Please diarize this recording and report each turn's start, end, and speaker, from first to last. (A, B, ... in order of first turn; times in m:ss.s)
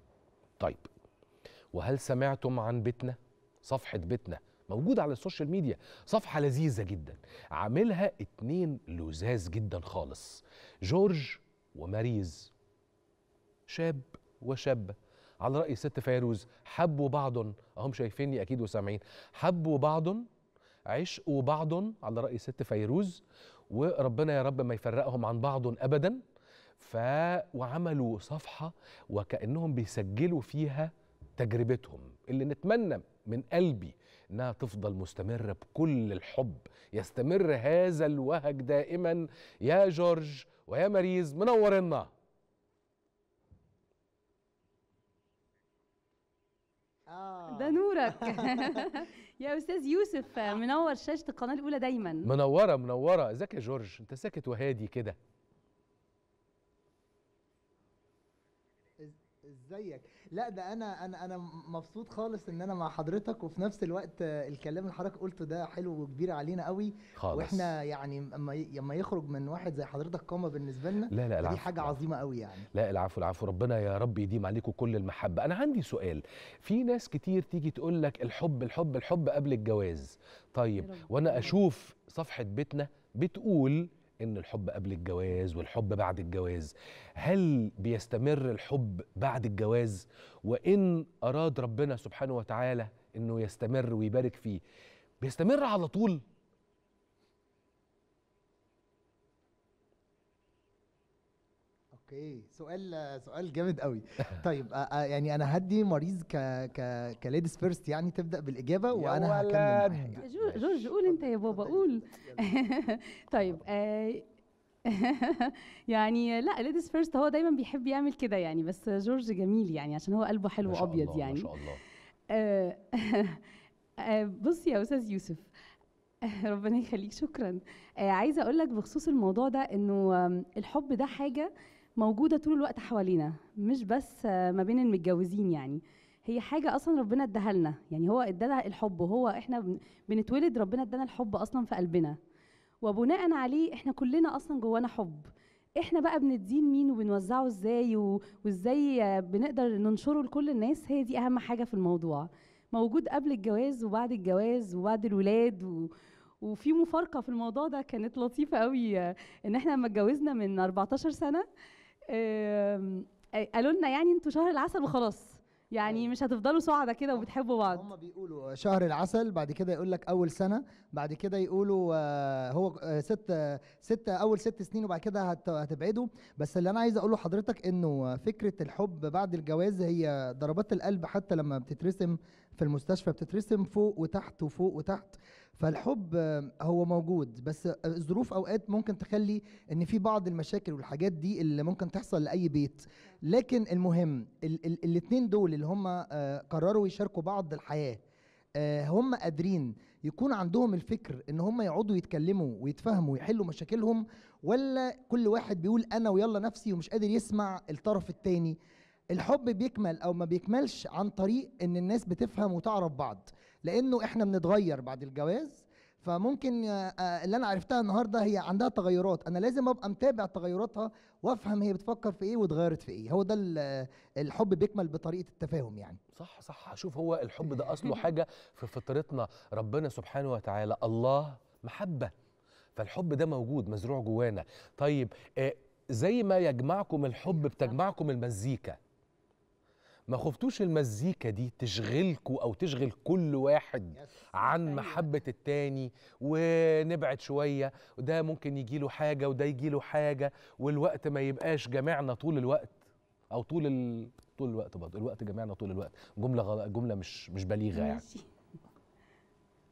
0:00.6-0:00.9 A
0:01.7-0:12.5 A
0:13.7-0:20.3 A
0:20.9-0:26.2 A
0:26.8-0:42.1 A
0:47.1-0:48.8 B
0:47.5-0:52.3 C
0:52.2-0:55.2 A
0:59.0-1:12.7 B
1:07.2-1:07.7 A
1:11.1-1:12.0 A
1:12.7-1:34.6 A
1:20.8-1:21.5 C
1:35.2-1:36.2 A
1:42.0-1:50.2 B
1:48.9-1:50.9 A
1:50.2-1:54.2 C
1:51.0-1:52.5 B
1:53.3-1:53.6 A
1:54.9-2:01.5 C
2:00.6-2:01.8 A
2:02.3-2:03.4 C
2:04.0-2:05.5 C
2:06.3-2:22.2 C
2:22.8-2:41.5 C
2:42.1-2:47.9 C
2:45.8-2:46.2 B
2:47.2-3:18.0 B
3:18.6-3:28.6 B
3:29.1-3:46.0 B
3:46.2-3:52.1 A
3:52.8-3:58.8 A
4:00.1-4:18.0 A
4:03.9-4:04.3 B
4:04.7-4:05.0 C
4:17.7-4:18.2 C